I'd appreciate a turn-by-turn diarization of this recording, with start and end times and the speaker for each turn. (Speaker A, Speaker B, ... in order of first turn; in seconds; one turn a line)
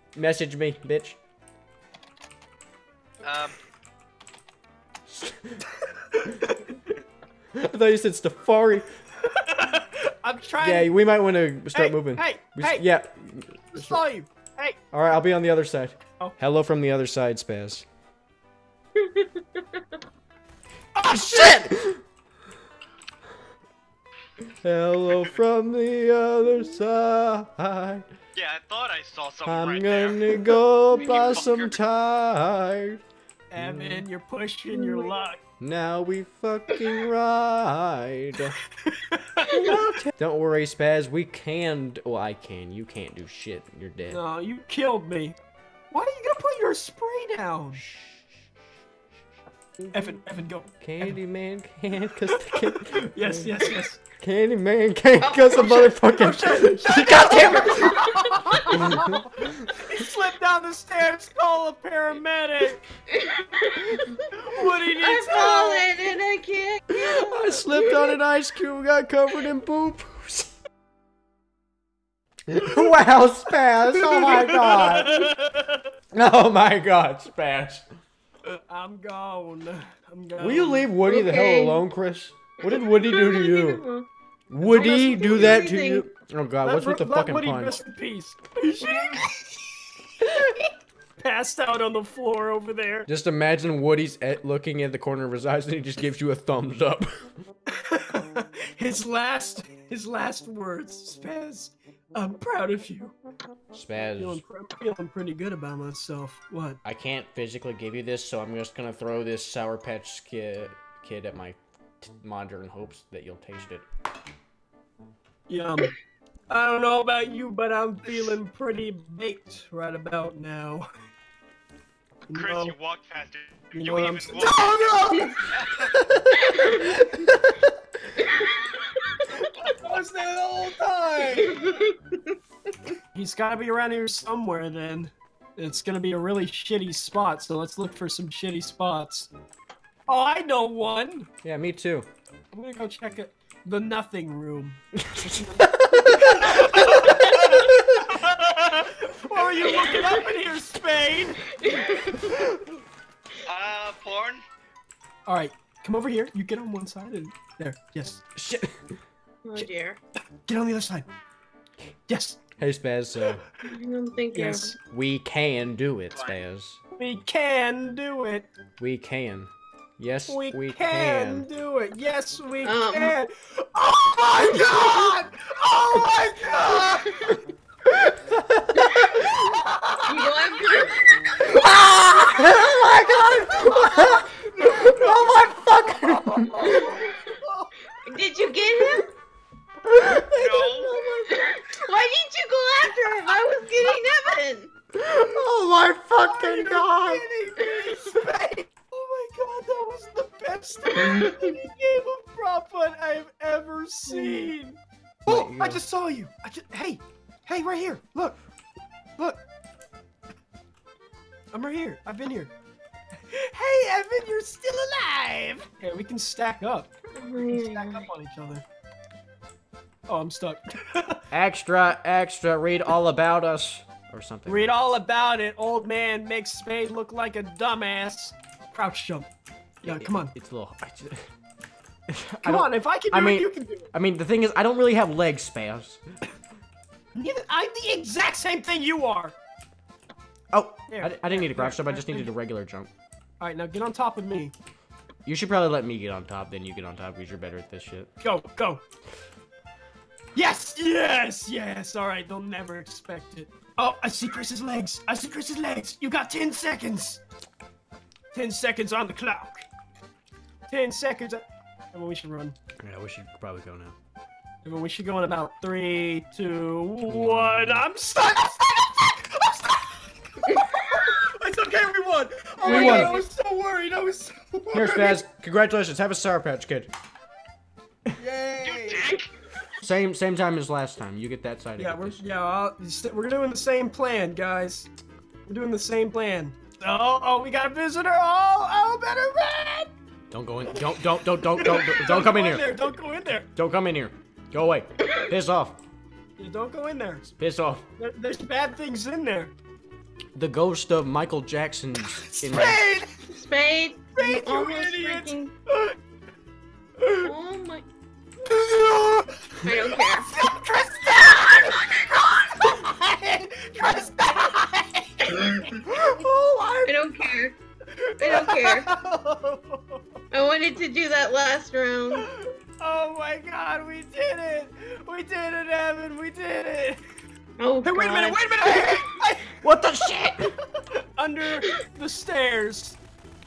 Speaker A: 0.1-1.2
Speaker B: 3.2-3.5
Speaker A: 5.1-5.6
Speaker C: 6.0-6.7
Speaker A: 7.5-8.9
Speaker C: 9.2-10.9
Speaker A: 10.6-14.0
Speaker C: 11.7-12.8
Speaker C: 13.7-14.8
Speaker A: 14.9-17.8
Speaker D: 19.0-19.8
Speaker A: 20.9-22.0
Speaker A: 24.6-28.0
Speaker B: 28.4-30.4
Speaker A: 29.4-33.0
Speaker B: 30.9-31.8
Speaker C: 33.5-35.4
Speaker A: 33.6-34.0
Speaker D: 34.7-35.1
Speaker A: 35.6-38.5
Speaker C: 38.8-39.9
Speaker A: 39.5-44.2
Speaker C: 44.1-45.4
Speaker C: 45.9-47.8
Speaker C: 49.9-51.2
Speaker A: 50.8-58.1
Speaker C: 52.5-54.0
Speaker D: 55.2-55.9
Speaker C: 56.0-62.8
Speaker A: 58.7-59.4
Speaker D: 63.1-64.2
Speaker C: 64.3-65.9
Speaker D: 65.0-68.0
Speaker A: 67.0-70.5
Speaker A: 72.5-75.3
Speaker C: 74.0-75.8
Speaker A: 76.1-77.8
Speaker C: 78.5-80.9
Speaker A: 80.4-83.8
Speaker D: 81.1-81.8
Speaker D: 82.6-84.1
Speaker A: 84.5-87.8
Speaker D: 84.7-86.0
Speaker C: 86.6-89.3
Speaker D: 88.8-89.2
Speaker C: 90.2-90.6
Speaker C: 91.2-93.1
Speaker A: 93.1-97.3
Speaker C: 97.8-103.1
Speaker A: 103.7-104.4
Speaker C: 104.2-106.8
Speaker A: 106.8-113.8
Speaker C: 115.5-115.9
Speaker C: 116.5-120.9
Speaker C: 122.3-122.7
Speaker B: 122.3-124.8
Speaker C: 123.7-125.2
Speaker A: 124.7-125.2
Speaker D: 125.1-125.4
Speaker B: 125.5-125.9
Speaker A: 126.3-127.7
Speaker D: 126.4-127.1
Speaker D: 128.2-129.2
Speaker C: 129.4-131.7
Speaker D: 131.4-132.4
Speaker C: 133.1-139.3
Speaker C: 140.1-141.3
Speaker A: 141.4-142.1
Speaker C: 142.5-151.5
Speaker A: 145.0-147.0
Speaker D: 149.7-150.1
Speaker D: 151.5-152.4
Speaker B: 153.5-154.4
Speaker C: 155.2-158.2
Speaker A: 158.3-158.7
Speaker D: 159.4-160.0
Speaker C: 160.4-161.1
Speaker C: 162.1-162.4
Speaker A: 162.6-163.4
Speaker D: 163.6-164.7
Speaker C: 164.3-164.8
Speaker A: 164.8-166.8
Speaker C: 166.9-168.5
Speaker A: 168.8-171.5
Speaker C: 170.3-177.4
Speaker D: 172.6-173.2
Speaker A: 177.9-178.8
Speaker C: 179.1-180.4
Speaker D: 180.1-181.4
Speaker A: 181.4-186.9
Speaker C: 183.6-185.3
Speaker C: 186.5-187.7
Speaker D: 188.1-189.1
Speaker C: 190.1-191.6
Speaker B: 190.3-190.9
Speaker D: 191.3-194.7
Speaker A: 194.9-197.2
Speaker C: 196.2-208.4
Speaker D: 204.1-204.5
Speaker A: 205.3-205.8
Speaker C: 209.2-209.4
Speaker C: 211.5-212.5
Speaker C: 213.3-218.6
Speaker D: 217.2-218.1
Speaker C: 220.1-221.2
Speaker A: 221.3-224.7
Speaker C: 224.5-229.3
Speaker C: 229.8-230.3
Speaker A: 229.8-231.3
Speaker A: 232.1-236.0
Speaker C: 232.4-233.9
Speaker C: 237.1-239.3
Speaker A: 240.5-242.9
Speaker C: 240.9-242.3
Speaker C: 243.4-244.5
Speaker A: 245.2-248.1
Speaker C: 248.2-248.8
Speaker C: 250.3-257.2
Speaker C: 258.3-259.6
Speaker C: 260.7-262.6
Speaker A: 262.8-263.9
Speaker C: 264.6-275.2
Speaker A: 267.1-267.8
Speaker D: 272.6-273.2
Speaker A: 272.6-273.2
Speaker A: 274.7-276.9
Speaker C: 278.1-279.2
Speaker B: 278.6-279.2
Speaker A: 279.8-282.2
Speaker C: 281.8-284.9
Speaker C: 285.5-289.9
Speaker A: 290.3-292.8
Speaker C: 291.6-293.5
Speaker A: 293.5-295.8
Speaker C: 296.4-297.3
Speaker A: 297.4-297.8
Speaker C: 298.0-299.5
Speaker A: 300.3-302.8
Speaker C: 302.2-303.2
Speaker D: 303.3-305.5
Speaker C: 304.1-306.0
Speaker C: 307.0-307.3
Speaker D: 307.2-307.8
Speaker C: 308.4-317.1
Speaker D: 309.6-310.3
Speaker D: 316.9-317.5
Speaker C: 318.0-320.0
Speaker D: 318.2-318.9
Speaker D: 320.3-322.2
Speaker C: 322.1-327.0
Speaker D: 327.6-328.4
Speaker C: 327.8-329.6
Speaker A: 329.6-330.5
Speaker C: 331.1-333.0